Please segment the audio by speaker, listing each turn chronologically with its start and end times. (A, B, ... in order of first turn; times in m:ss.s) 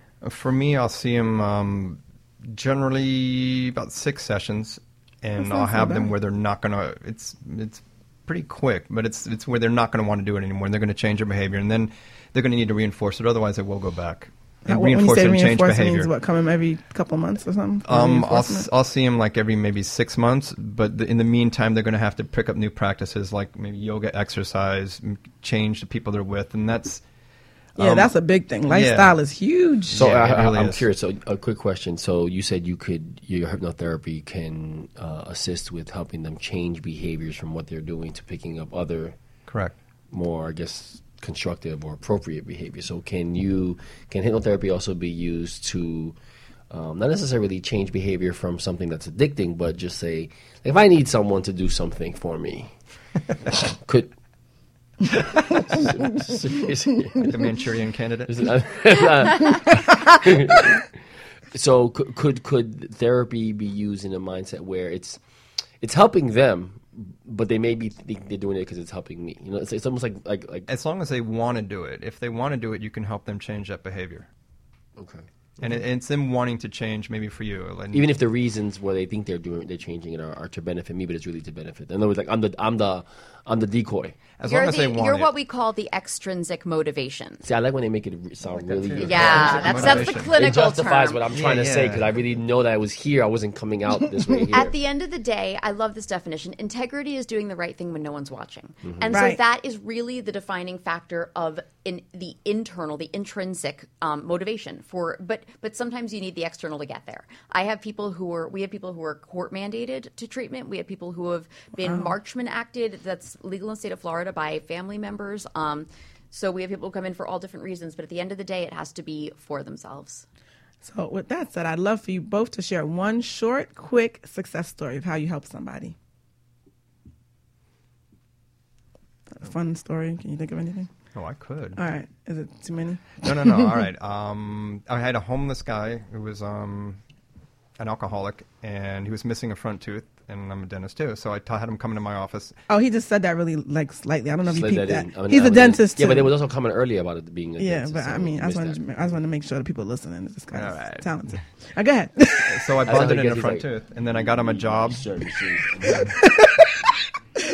0:00.2-0:16.1 A
0:05.4-0:06.1 B
0:14.6-0:18.7 B
0:17.9-0:27.0 A
0:27.8-0:28.1 A
0:27.8-0:30.1 B
0:28.7-0:29.2 A
0:29.9-0:30.8 A
0:29.9-0:39.2 C
0:39.5-0:39.8 A
0:40.1-0:46.1 C
0:46.7-0:52.8 C
0:53.6-0:54.1 C
0:55.5-0:57.4 C
0:57.2-0:58.5 A
0:58.3-1:00.9 C
1:01.5-1:05.2 C
1:05.8-1:10.7 C
1:10.7-1:14.3 A
1:15.0-1:15.8 C
1:15.6-1:18.1 A
1:17.9-1:24.2 C
1:24.4-1:25.3 A
1:24.4-1:27.4 D
1:27.4-1:34.7 C
1:28.5-1:30.3 A
1:29.0-1:31.2 D
1:31.3-1:32.2 A
1:34.5-2:00.2 D
1:38.8-1:39.2 C
1:39.1-1:39.4 B
1:51.8-1:52.1 B
2:00.8-2:06.0 B
2:09.3-2:10.9 B
2:11.1-2:11.8 A
2:11.8-2:13.7 B
2:13.2-2:17.0 A
2:17.8-2:22.6 A
2:22.7-2:26.3 B
2:24.4-2:29.1 C
2:27.6-2:32.7 B
2:30.5-2:31.1 A
2:32.4-2:35.0 A
2:32.8-2:36.2 C
2:36.0-2:36.8 B